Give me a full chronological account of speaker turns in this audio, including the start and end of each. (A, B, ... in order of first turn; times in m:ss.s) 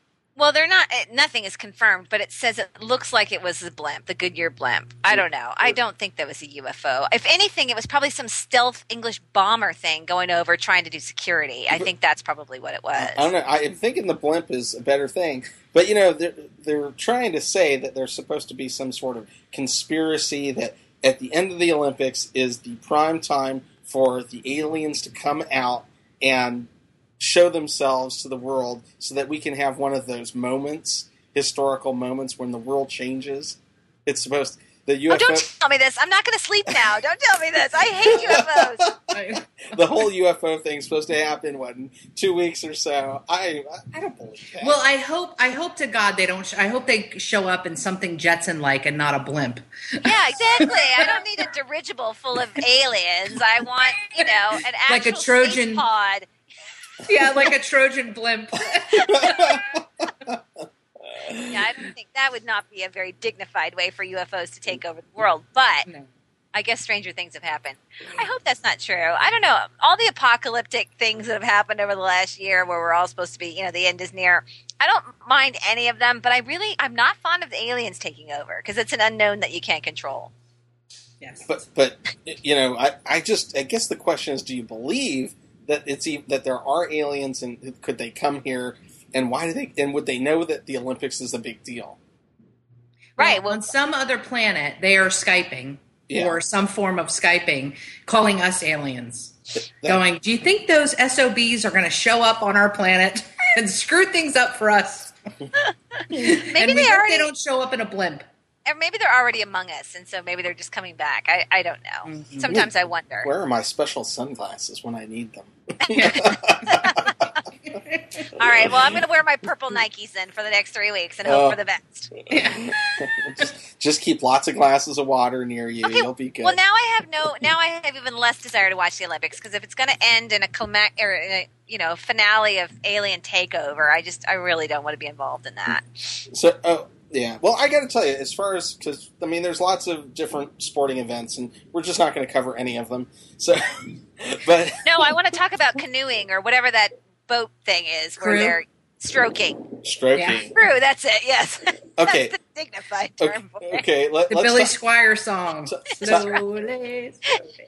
0:00.4-0:13.3 A
0:05.1-0:05.8 B
0:13.0-0:35.5 B
0:35.1-0:38.9 A
0:38.0-0:44.8 B
0:38.1-0:38.4 C
0:39.1-0:39.9 C
0:44.6-0:50.0 C
0:50.0-0:56.3 A
0:50.6-0:51.2 C
0:54.2-0:55.8 C
0:57.0-0:59.6 C
0:58.8-1:01.6 B
1:01.5-1:05.9 A
1:06.5-1:20.3 A
1:21.2-1:21.5 C
1:21.5-1:32.0 B
1:33.2-1:33.7 A
1:33.2-1:45.2 C
1:36.1-1:36.4 B
1:45.6-1:47.3 A
1:46.1-1:48.2 C
1:48.6-1:53.3 A
1:52.1-1:52.4 C
1:53.2-1:57.2 B
1:55.8-1:57.4 A
1:55.9-1:56.4 C
1:57.7-1:58.3 C
1:58.4-2:02.1 A
1:58.4-1:58.7 B
2:01.2-2:01.6 B
2:02.3-2:03.1 C
2:02.3-2:06.6 B
2:05.8-2:16.2 A
2:16.3-2:25.2 B
2:24.8-2:29.8 A
2:28.2-2:28.6 C
2:29.8-2:30.6 B
2:30.2-2:30.5 C
2:30.5-2:33.9 A
2:32.0-2:32.4 B
2:33.2-2:34.8 B
2:34.3-2:37.5 C
2:35.7-2:36.4 B
2:36.0-2:36.3 A